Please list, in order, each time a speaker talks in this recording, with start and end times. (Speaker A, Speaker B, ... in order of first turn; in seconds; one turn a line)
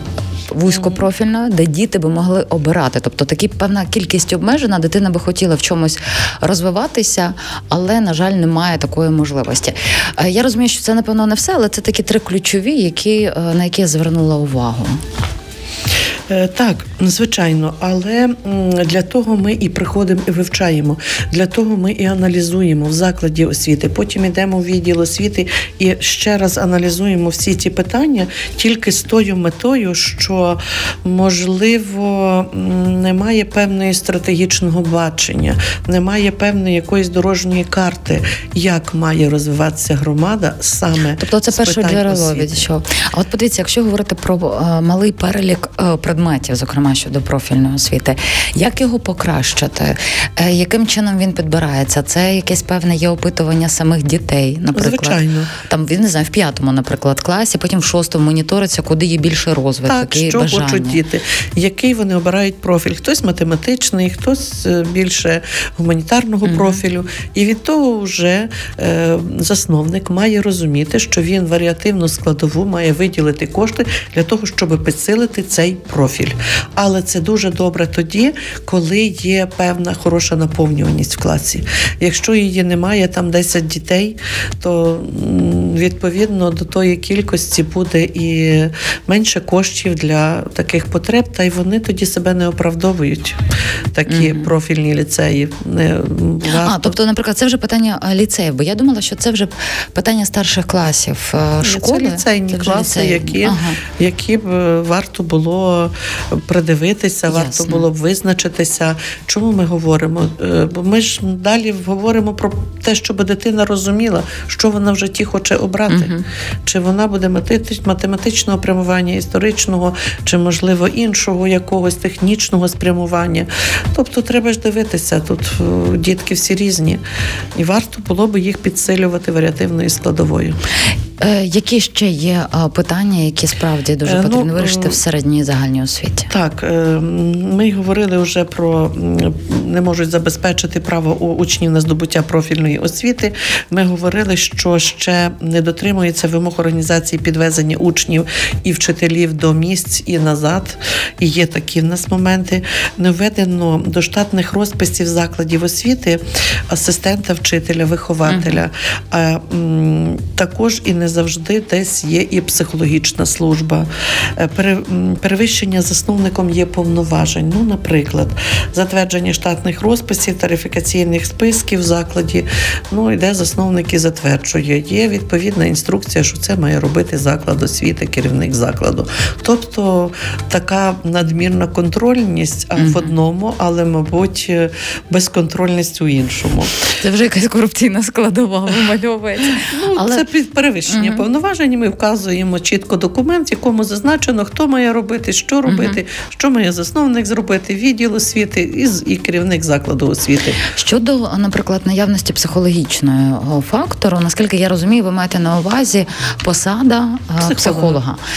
Speaker A: 0.5-15.0
Speaker B: 0.7-1.1
Speaker B: 16.3-42.6
Speaker A: 41.2-61.0
Speaker B: 54.7-55.5
Speaker B: 59.9-97.0
Speaker A: 66.5-66.8
Speaker A: 94.1-94.5
Speaker A: 96.5-103.8
Speaker B: 101.6-116.1
Speaker A: 107.3-107.8
Speaker A: 115.9-116.2
Speaker B: 116.7-127.0
Speaker B: 127.6-130.6
Speaker A: 131.2-136.3
Speaker B: 134.0-135.0
Speaker B: 136.3-186.7
Speaker A: 158.3-158.6
Speaker A: 182.8-183.1
Speaker A: 186.9-190.2
Speaker B: 189.6-200.6
Speaker A: 190.9-191.2
Speaker A: 195.7-196.0
Speaker A: 200.7-208.2
Speaker B: 207.4-208.0